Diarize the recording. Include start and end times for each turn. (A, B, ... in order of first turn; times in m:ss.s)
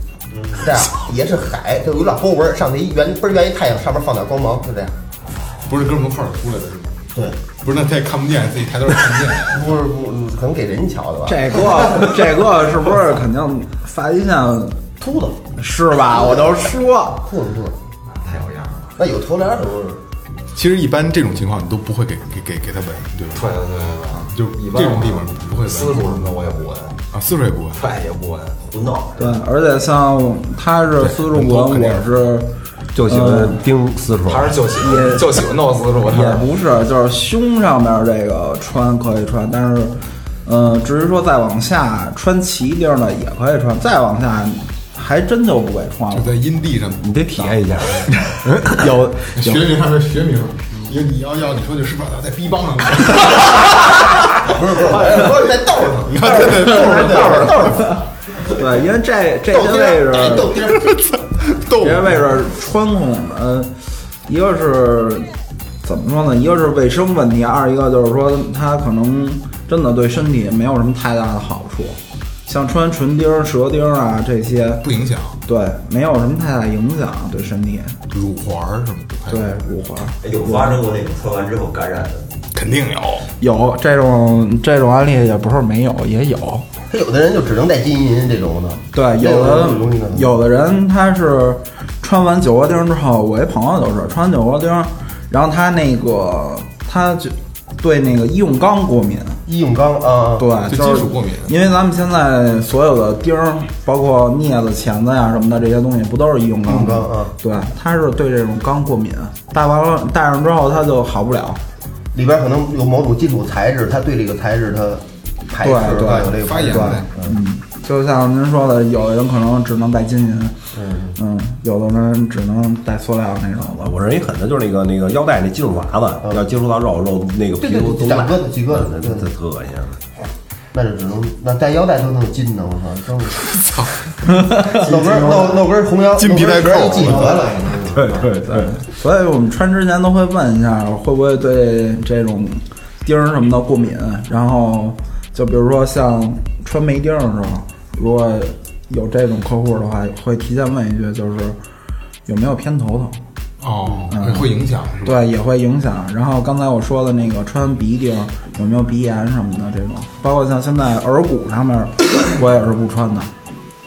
0:00.3-0:00.6 A
0:00.6-0:04.9 B
0:05.6-0:07.0 C
0:07.1-0:07.4 B
0:07.6-0:09.8 C
0:09.5-0:12.0 B
0:11.2-0:14.9 D
0:15.0-0:15.4 B
0:15.6-0:17.3 D
0:16.1-0:16.7 B
0:17.2-0:17.8 B
0:18.1-0:18.9 E
0:19.0-0:20.0 B
0:20.5-0:23.5 C
0:23.3-0:27.0 E
0:24.1-0:26.3 C
0:27.1-0:27.8 C
0:27.7-0:28.6 E
0:28.6-0:29.4 A
0:29.2-0:32.5 D
0:31.0-0:32.1 C
0:32.9-0:34.6 F
0:33.0-0:33.6 D
0:34.2-0:36.5 E
0:34.8-0:35.3 D
0:36.0-0:46.4 D
0:46.1-0:48.1 C
0:47.0-0:48.6 F
0:48.5-0:49.7 D
0:49.2-0:55.3 C
0:54.4-0:58.0 B
0:56.0-0:57.9 C
0:56.6-1:00.6 D
0:59.5-1:01.0 B
1:00.7-1:02.2 C
1:01.8-1:03.7 D
1:04.2-1:05.3 D
1:05.8-1:14.8 D
1:14.8-1:15.4 C
1:15.4-1:18.0 D
1:18.1-1:19.5 C
1:19.3-1:20.8 D
1:20.2-1:22.4 A
1:22.5-1:23.3 C
1:23.4-1:26.6 D
1:26.9-1:30.3 B
1:28.9-1:39.4 D
1:39.5-1:40.5 B
1:40.4-1:51.6 D
1:40.7-1:41.5 C
1:46.6-1:47.3 B
1:52.1-1:57.3 B
1:55.6-2:00.6 D
1:56.3-1:57.1 C
2:00.7-2:01.1 B
2:01.2-2:03.9 D
2:03.7-2:10.0 F
2:07.6-2:09.3 B
2:10.7-2:13.5 B
2:13.4-2:14.6 C
2:14.3-2:14.9 D
2:14.7-2:18.3 B
2:16.2-2:17.4 C
2:17.9-2:18.7 F
2:18.4-2:31.6 D
2:32.2-2:33.2 D
2:33.6-2:35.2 C
2:34.1-2:43.3 D